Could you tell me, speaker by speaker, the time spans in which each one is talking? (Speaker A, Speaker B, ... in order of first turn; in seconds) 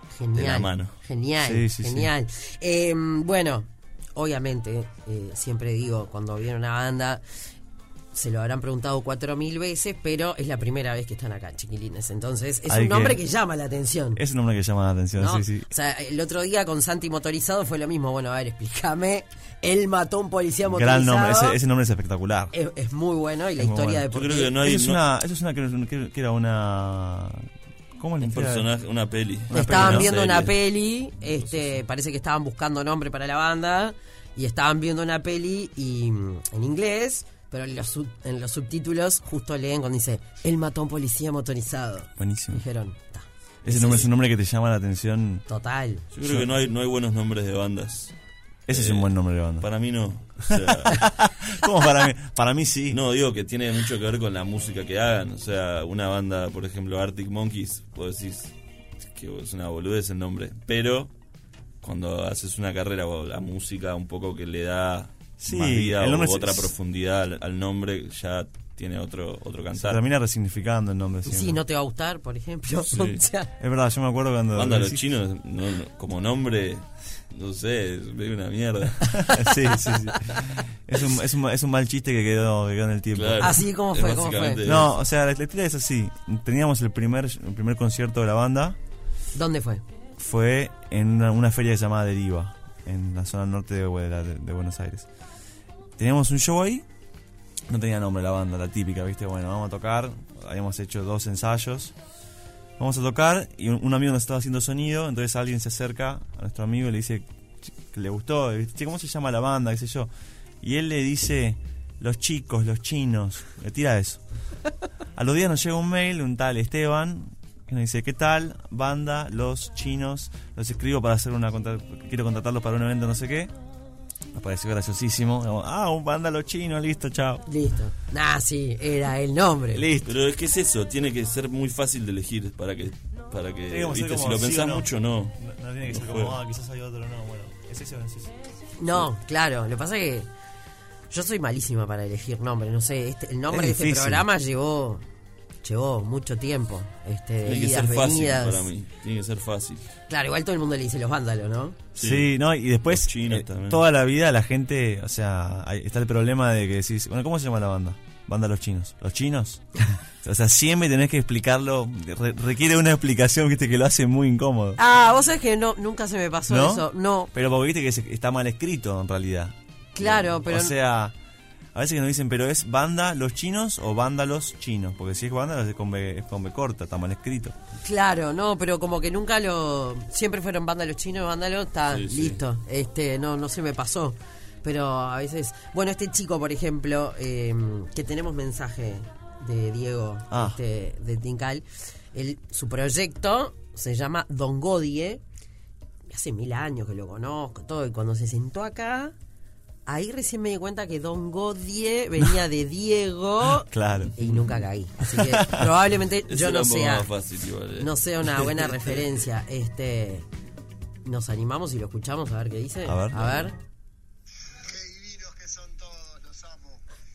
Speaker A: 0.2-7.2, 8.1-14.2, 15.2-21.6, 22.5-24.6, 29.5-44.1, 45.5-46.0, 71.3-73.5, 83.4-84.7, 89.3-89.8, 127.5-129.9, 138.8-140.3, 141.1-145.0, 145.6-148.7, 150.1-151.8, 164.8-167.3, 169.9-170.8, 177.8-195.2, 196.1-199.1, 199.9-207.1, 207.8-210.2, 211.1-213.6
Speaker B: 0.3-0.9, 24.1-25.0, 28.2-30.6, 31.3-31.7, 46.1-48.1, 48.7-51.1, 52.9-61.1, 61.8-70.0, 72.9-73.2, 74.5-79.3, 83.1-84.9, 130.0-136.4, 147.4-149.9, 151.9-152.3, 152.9-153.8, 181.9-182.4, 206.3-209.0
Speaker C: 1.4-2.1, 12.7-13.2, 14.2-15.7, 20.7-22.5, 23.6-28.7, 29.5-30.1, 42.2-42.6, 43.6-45.5, 46.2-46.5, 48.7-49.7, 50.5-53.0, 65.4-66.7, 69.8-71.6, 73.6-75.0, 79.1-83.6, 84.6-88.8, 90.2-95.1, 96.0-96.8, 97.7-101.9, 102.8-110.1, 110.6-114.2, 115.2-123.5, 124.3-127.5, 129.7-130.2, 133.7-138.3, 143.5-144.3, 152.0-164.8, 166.5-171.2, 171.8-177.6, 190.3-190.6, 203.6-204.2, 205.1-205.7, 212.8-213.5
Speaker D: 214.6-216.8